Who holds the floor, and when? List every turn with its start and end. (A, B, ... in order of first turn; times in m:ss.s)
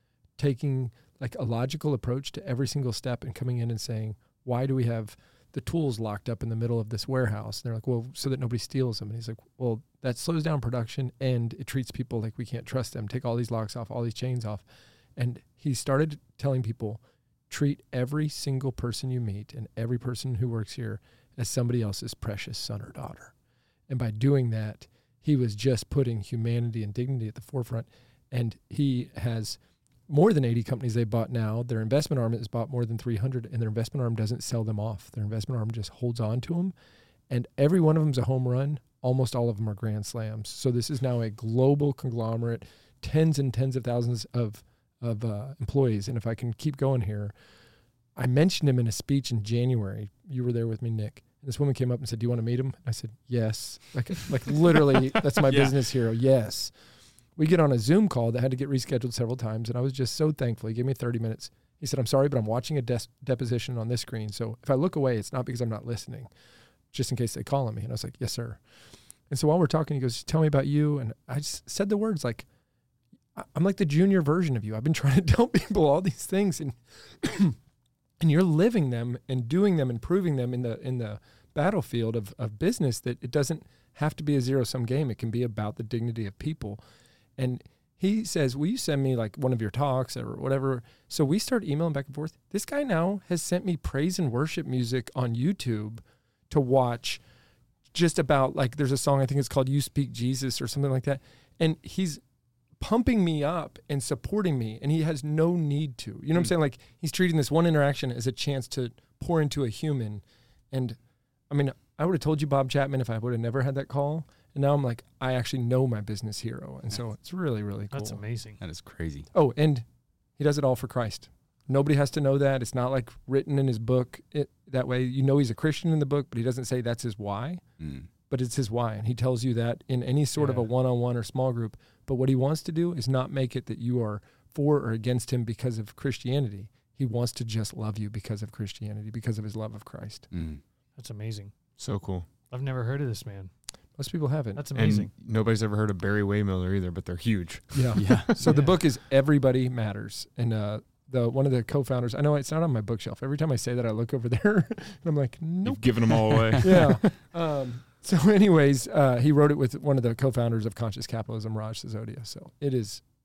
0:00.4-0:14.6 A
0:15.2-0:23.3 A
0:23.9-0:36.7 A
0:37.3-0:47.3 A
0:48.2-0:56.7 A
0:55.4-0:55.8 B
0:57.4-1:06.3 A
1:06.9-1:08.6 A
1:09.3-1:12.5 A
1:13.4-1:17.6 A
1:18.2-1:26.8 A
1:27.4-1:37.2 A
1:37.9-1:42.2 A
1:42.8-1:51.0 A
1:51.5-1:58.2 A
1:57.9-1:58.6 C
1:58.6-1:59.3 B
1:59.3-1:59.8 A
2:00.4-2:07.6 A
2:07.8-2:08.1 B
2:08.3-2:20.3 A
2:10.4-2:10.6 C
2:20.3-2:20.6 B
2:21.0-2:21.5 C
2:21.8-2:22.3 D
2:22.5-2:23.5 C
2:24.0-2:24.7 A
2:24.6-2:25.1 C
2:24.8-2:28.0 D
2:27.7-2:43.0 A
2:28.0-2:28.4 B
2:28.4-2:28.8 C
2:35.6-2:36.9 D
2:36.3-2:37.0 B